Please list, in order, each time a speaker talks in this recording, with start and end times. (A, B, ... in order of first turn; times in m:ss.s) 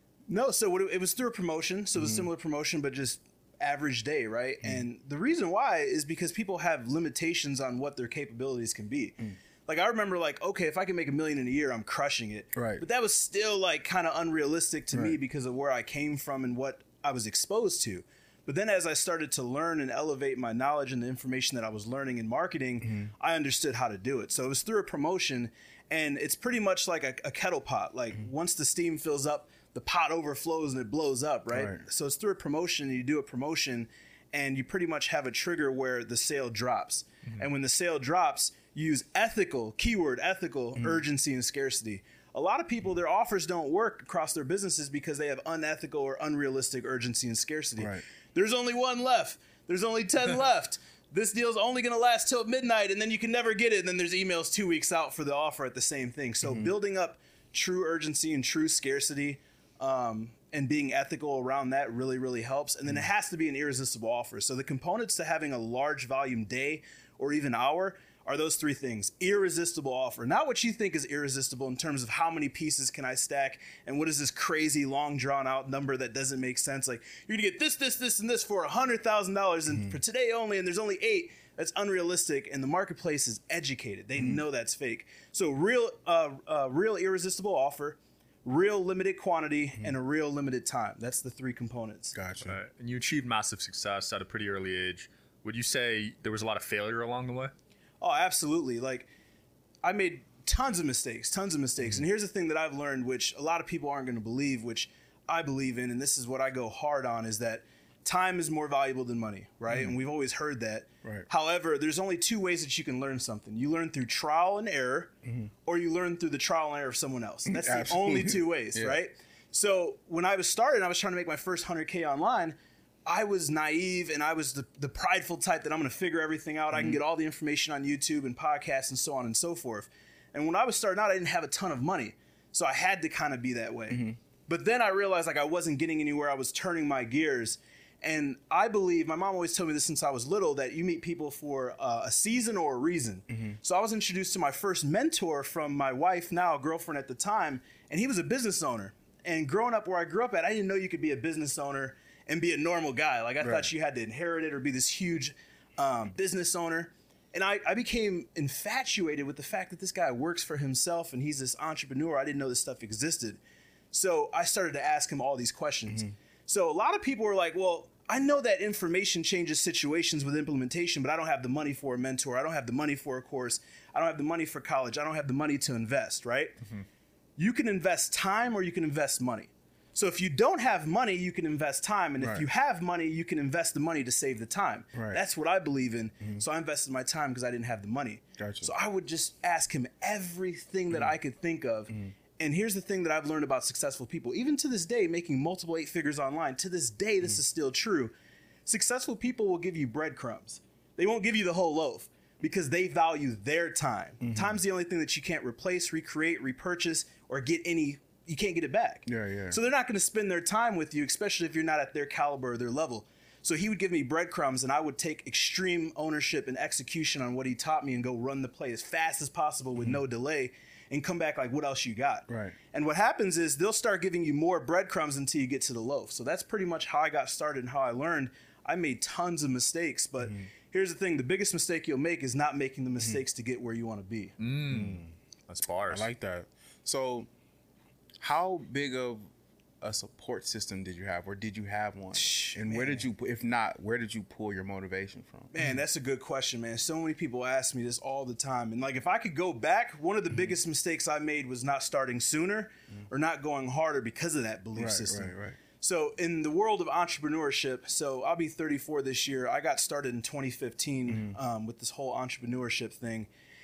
0:00.3-1:32.2 A
0:02.0-0:02.3 B
0:12.6-0:12.8 B
0:22.8-0:23.1 B
0:31.5-0:31.8 B
0:47.8-0:48.0 B
0:56.4-0:56.7 B
1:32.2-1:32.6 B
1:32.4-1:37.5 C
1:38.0-1:39.1 A
1:39.8-2:43.4 A
1:57.5-1:59.0 B
2:06.7-2:07.0 B
2:13.9-2:14.2 B
2:23.3-2:23.6 B
2:33.4-2:33.7 B
2:43.9-2:56.6 A
2:57.4-3:18.1 A
3:02.2-3:02.5 B
3:04.9-3:05.2 B
3:08.4-3:08.7 B
3:18.7-3:54.4 A
3:24.2-3:24.6 B
3:29.1-3:29.6 B
3:42.3-3:42.6 B
3:54.4-3:56.1 C
3:54.7-3:55.1 B
3:55.9-3:57.3 B
3:58.2-3:59.3 B
3:59.8-4:05.8 B
4:02.2-4:03.0 A
4:05.5-4:23.3 A
4:14.8-4:15.6 B
4:21.1-4:21.4 B